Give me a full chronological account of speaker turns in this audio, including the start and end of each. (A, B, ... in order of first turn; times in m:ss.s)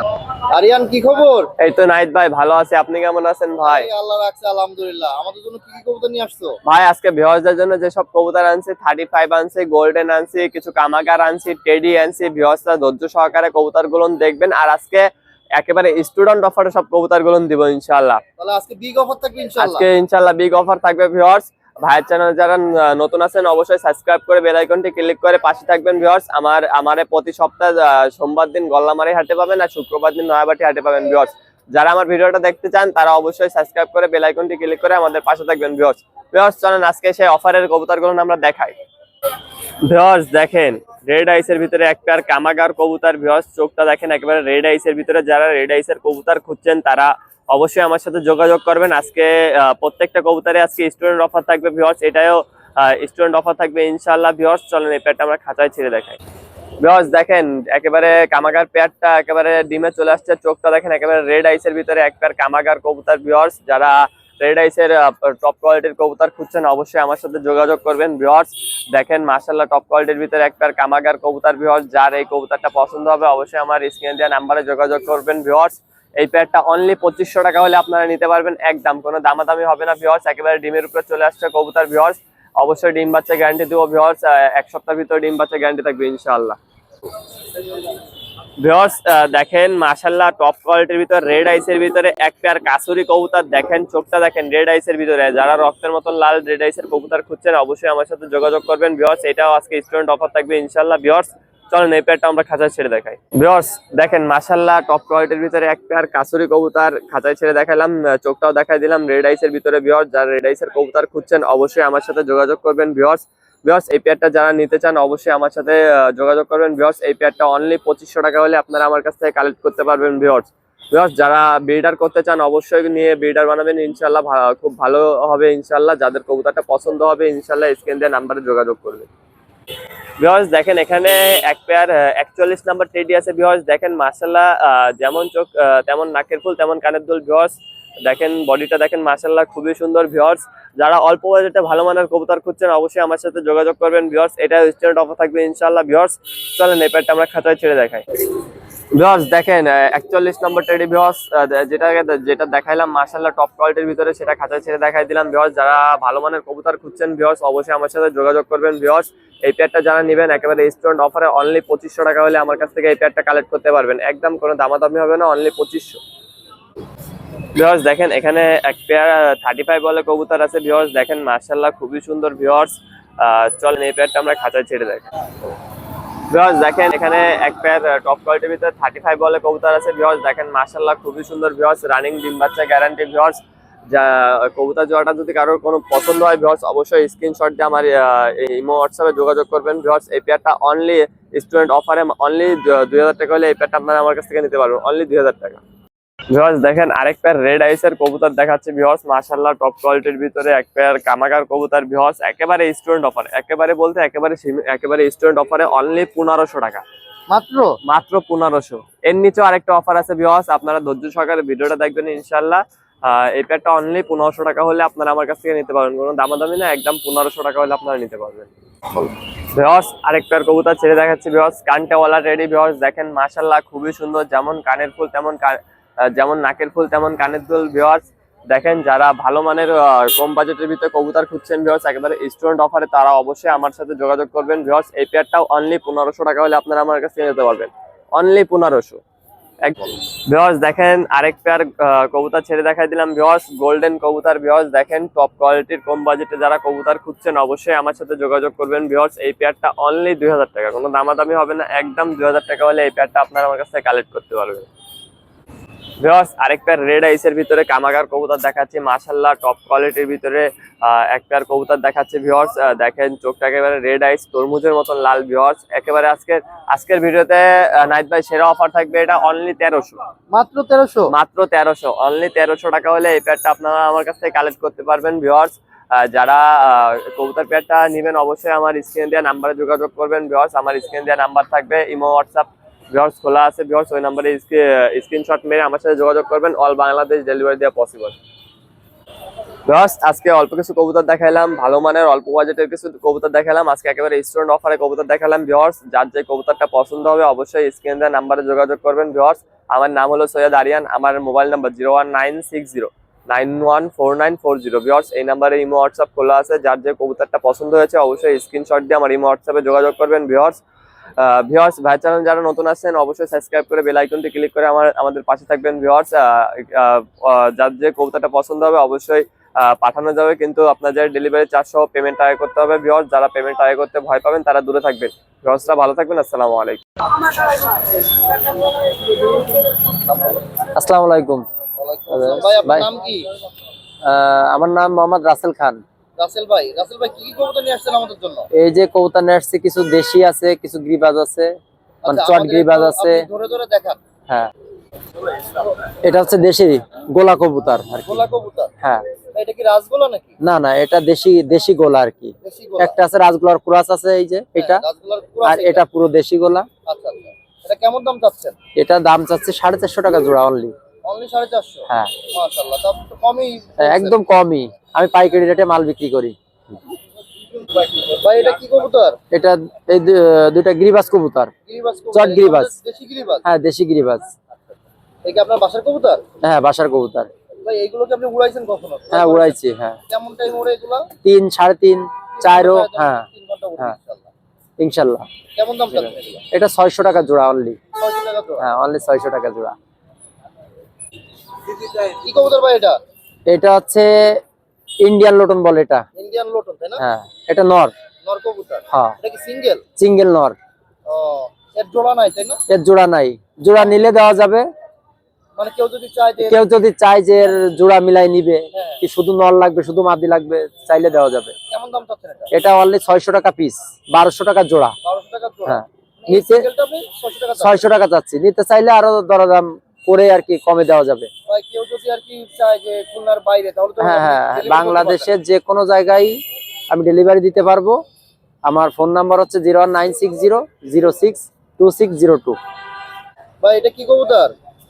0:00.5-0:01.5 A
0:01.6-0:03.9 B
0:03.6-0:06.6 A
0:06.7-0:18.2 B
0:18.4-0:19.9 A
0:19.6-0:38.8 B
0:39.8-0:56.2 B
0:56.8-1:26.6 B
1:28.6-2:09.1 B
2:10.2-2:17.6 B
2:18.1-2:28.0 B
2:29.0-2:46.0 B
2:47.6-2:55.1 B
2:56.3-3:15.6 B
3:16.3-3:26.8 B
3:27.3-3:27.7 A
3:27.9-3:38.5 B
3:39.5-3:45.6 B
3:46.2-3:59.0 B
3:59.6-4:14.7 B
4:16.0-4:30.0 B
4:30.3-4:31.1 A
4:31.1-4:48.2 B
4:49.7-5:10.6 B
5:11.2-5:26.8 B
5:30.1-5:30.4 A
5:30.8-5:31.5 C
5:31.8-5:33.3 A
5:32.1-5:32.9 C
5:34.1-5:35.8 C
5:36.2-5:38.5 A
5:38.6-5:41.6 C
5:42.0-5:44.0 A
5:42.1-5:43.3 C
5:46.0-5:48.2 C
5:48.1-5:48.7 A
5:49.4-5:50.3 A
5:50.4-5:54.8 C
5:52.4-5:53.0 A
5:54.6-5:55.9 A
5:55.4-5:56.7 C
5:56.9-5:58.6 A
5:58.8-6:00.7 C
6:01.1-6:04.2 A
6:01.9-6:02.2 C
6:03.8-6:06.4 C
6:07.8-6:09.2 A
6:09.3-6:11.5 C
6:11.7-6:13.4 A
6:12.1-6:12.7 C
6:13.4-6:14.3 C
6:15.2-6:16.2 A
6:16.4-6:17.3 C
6:17.6-6:19.6 A
6:19.1-6:20.0 C
6:20.1-6:21.1 A
6:21.2-6:23.3 C
6:22.4-6:24.3 A
6:24.8-6:25.3 C
6:25.6-6:26.4 A
6:26.5-6:27.8 C
6:28.0-6:28.6 A
6:28.6-6:29.8 C
6:32.2-6:33.0 A
6:33.5-6:34.4 C
6:35.0-6:36.1 C
6:36.2-6:37.0 A
6:37.0-6:37.9 C
6:38.2-6:39.8 A
6:40.0-6:40.6 C
6:41.1-6:42.6 A
6:42.7-6:44.7 C
6:45.6-6:46.6 A
6:46.4-6:51.5 C
6:48.7-6:49.0 A
6:51.7-6:52.5 A
6:52.5-6:55.0 C
6:55.0-6:57.9 A
6:55.7-6:56.7 C
6:57.6-7:01.3 C
7:01.5-7:05.3 A
7:04.0-7:08.0 C
7:08.7-7:12.6 C
7:13.6-7:14.5 A